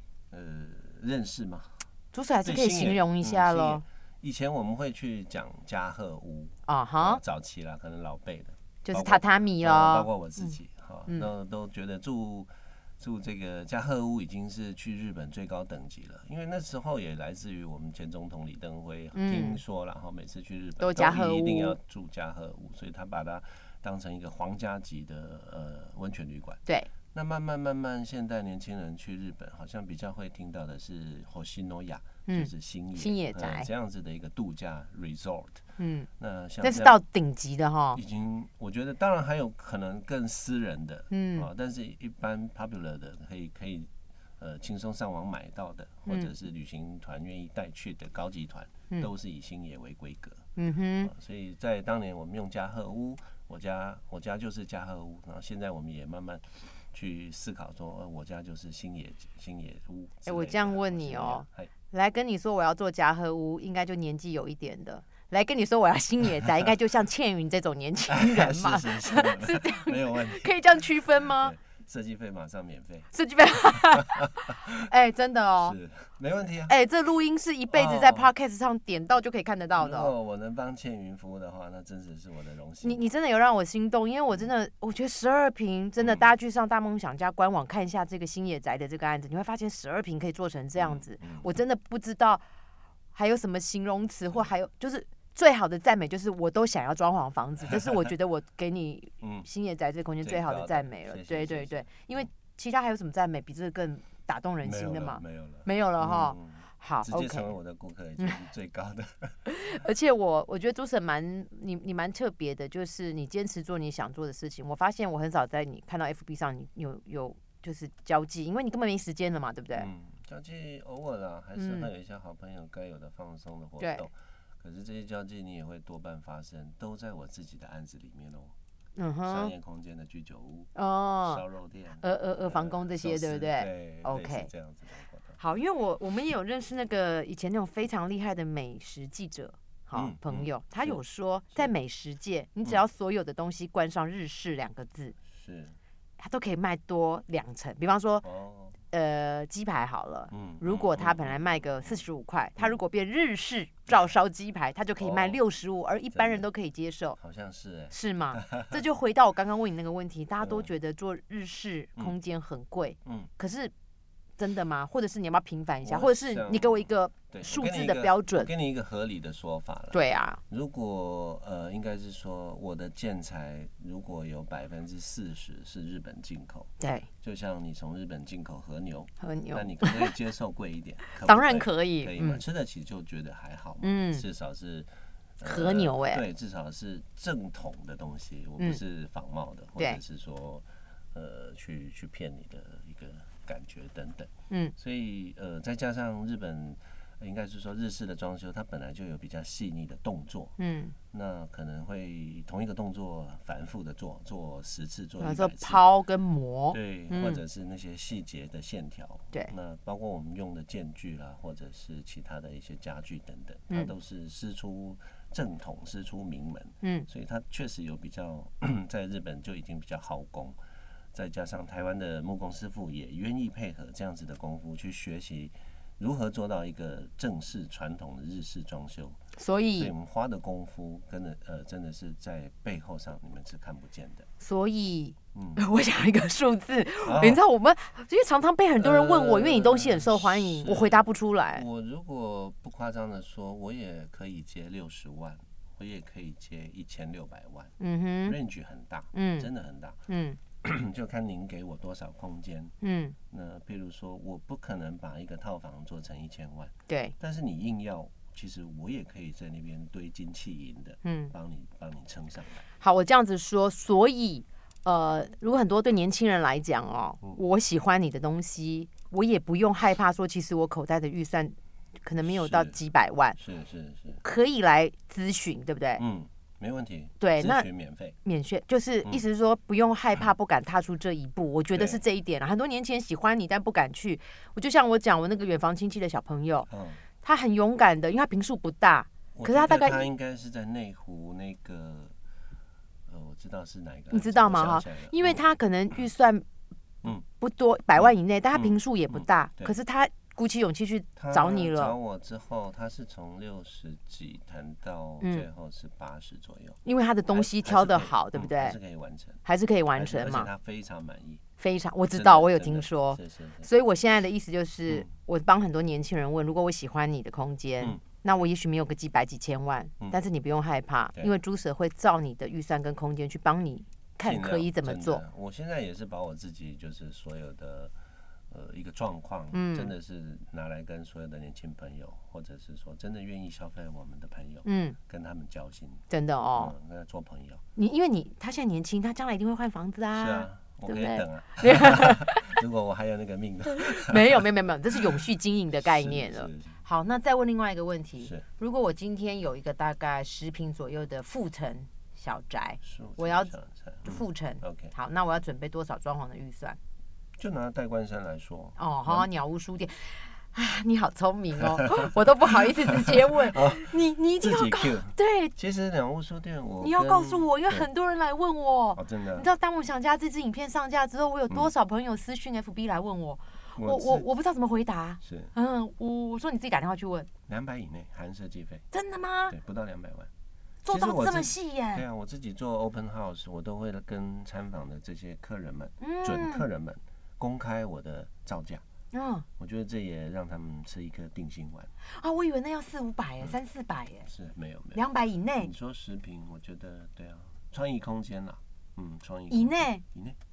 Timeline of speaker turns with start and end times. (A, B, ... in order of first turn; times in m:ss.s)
0:00.3-0:01.9 A
0:02.1-0:03.8 B
0:02.4-0:35.6 A
0:06.7-0:07.2 B
0:08.8-0:10.5 B
0:19.1-0:19.6 B
0:20.8-0:21.8 B
0:32.3-0:33.7 B
0:35.8-0:36.1 B
0:36.2-0:37.0 A
0:36.6-0:38.0 B
0:37.9-0:50.4 A
0:41.1-0:41.5 B
0:50.6-0:51.1 B
0:51.0-1:01.7 A
1:00.3-1:11.6 B
1:08.1-1:13.1 A
1:13.1-1:15.8 B
1:15.6-1:16.8 A
1:16.7-1:20.1 B
1:17.7-1:18.3 A
1:19.8-1:23.0 A
1:22.8-1:32.4 B
1:30.8-1:31.5 A
1:33.1-1:47.5 B
1:39.2-1:39.5 A
1:40.2-1:42.3 A
1:44.6-1:49.4 A
1:49.5-1:59.9 B
1:59.8-2:08.5 A
2:01.6-2:01.9 B
2:09.0-2:09.5 B
2:09.3-2:10.7 A
2:10.8-2:11.4 B
2:11.2-2:15.4 A
2:12.0-2:14.5 B
2:15.4-2:25.2 B
2:19.9-2:21.0 A
2:25.3-2:25.8 A
2:26.2-2:28.2 B
2:28.2-2:28.8 A
2:28.9-2:37.2 B
2:30.3-2:32.0 A
2:35.0-2:35.4 A
2:36.1-2:36.4 A
2:37.2-2:38.8 A
2:37.9-2:43.7 B
2:40.4-2:40.7 A
2:43.0-2:43.3 A
2:44.4-2:48.5 B
2:45.8-2:56.7 A
2:49.9-2:50.4 B
2:56.8-2:57.1 B
2:57.2-3:20.6 A
2:59.2-3:00.1 B
3:01.1-3:02.4 B
3:03.8-3:04.2 B
3:05.4-3:06.2 B
3:20.6-3:21.0 B
3:21.1-3:25.8 A
3:25.2-3:27.4 B
3:26.7-3:40.6 A
3:36.8-3:37.1 B
3:41.1-3:49.2 A
3:49.3-3:49.9 B
3:49.8-3:54.3 A
3:54.4-4:01.7 B
3:55.3-3:55.6 A
3:57.0-3:57.4 A
3:58.8-4:01.0 A
4:01.5-4:07.7 A
4:07.8-4:08.4 B
4:08.2-4:10.0 A
4:09.1-4:09.5 B
4:10.1-4:10.4 B
4:10.6-4:12.8 A
4:12.8-4:13.2 B
4:13.3-4:22.7 A
4:16.9-4:17.2 B
4:21.0-4:21.3 B
4:22.8-4:33.4 B
4:32.2-4:32.7 A
4:33.4-4:34.2 A
4:34.2-4:36.0 B
4:36.0-4:38.2 A
4:37.2-4:37.7 B
4:38.2-4:46.7 B
4:41.7-4:42.0 A
4:46.7-4:47.0 A
4:47.2-4:50.1 B
4:49.4-4:52.2 A
4:53.1-4:55.4 A
4:54.1-4:56.4 B
4:57.1-5:02.0 B
4:58.5-4:59.8 A
5:01.2-5:06.8 A
5:05.2-5:05.5 B
5:06.8-5:08.8 B
5:07.3-5:09.4 A
5:09.4-5:10.5 B
5:10.0-5:11.4 A
5:11.6-5:25.2 B
5:12.1-5:13.7 A
5:24.2-5:27.9 A
5:28.5-5:37.6 A
5:29.5-5:29.9 B
5:34.6-5:35.0 B
5:36.1-5:36.7 B
5:37.8-5:42.6 B
5:40.1-5:45.0 A
5:43.8-5:56.8 B
5:45.8-5:46.8 A
5:52.8-5:54.9 A
5:57.4-5:59.3 A
5:58.8-6:05.5 B
6:03.0-6:07.9 A
6:06.8-6:17.3 B
6:09.0-6:09.5 A
6:13.8-6:14.3 A
6:15.2-6:15.5 A
6:17.5-6:18.8 A
6:18.9-6:19.6 B
6:19.5-6:20.3 A
6:20.8-6:22.0 B
6:20.9-6:28.8 A
6:26.0-6:26.6 B
6:29.1-6:29.5 B
6:29.6-6:31.9 A
6:32.0-6:34.3 B
6:34.2-6:35.0 A
6:34.9-6:35.7 B
6:35.6-6:40.4 A
6:39.5-6:40.0 B